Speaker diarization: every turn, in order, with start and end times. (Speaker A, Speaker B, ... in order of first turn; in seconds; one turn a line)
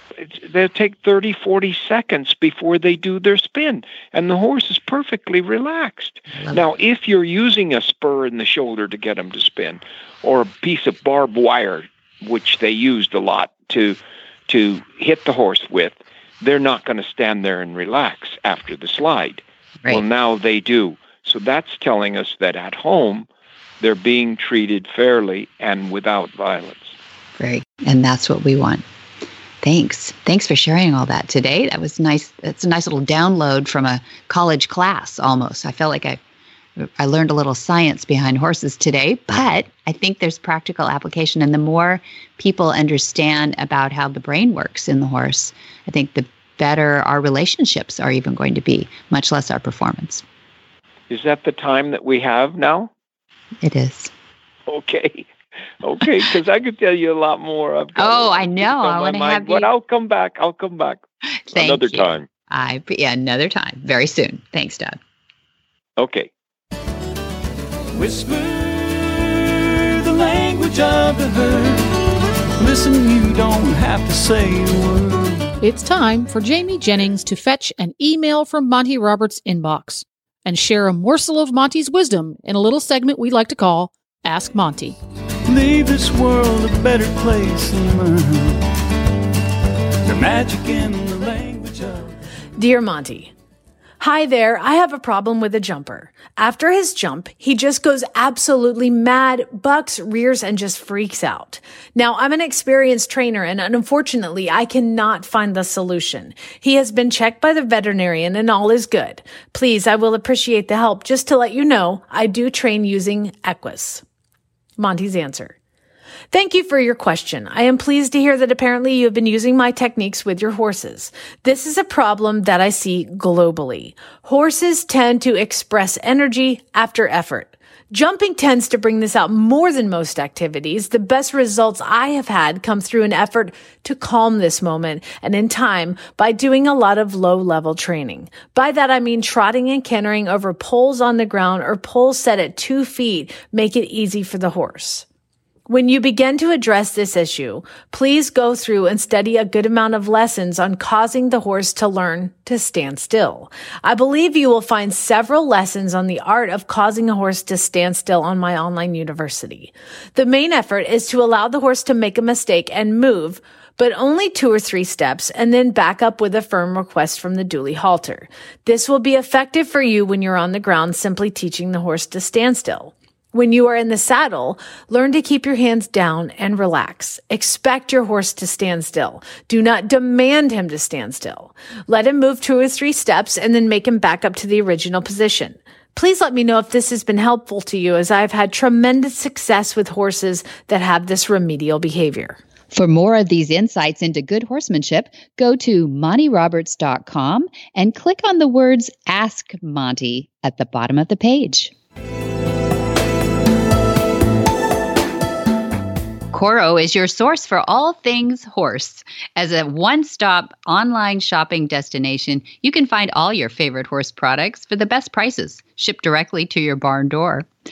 Speaker A: 0.2-23.3
Speaker B: 6.3-6.7
Speaker A: 23.8-26.9
Speaker B: 27.4-28.8
Speaker B: 29.6-36.2
Speaker B: 36.8-50.2
Speaker A: 51.1-52.9
Speaker B: 53.6-54.1
Speaker A: 54.7-55.3
Speaker A: 55.8-61.0
Speaker B: 58.0-59.7
Speaker B: 61.5-65.0
Speaker A: 61.5-62.3
Speaker A: 66.0-66.3
Speaker C: 68.0-71.9
Speaker C: 72.6-75.5
Speaker D: 75.6-85.0
Speaker C: 85.5-88.6
Speaker C: 90.0-92.1
Speaker E: 92.6-93.3
Speaker E: 94.0-114.0
Speaker E: 114.8-115.6
Speaker E: 116.3-145.1
Speaker E: 145.7-192.4
Speaker B: 192.7-201.7
Speaker B: 206.3-217.5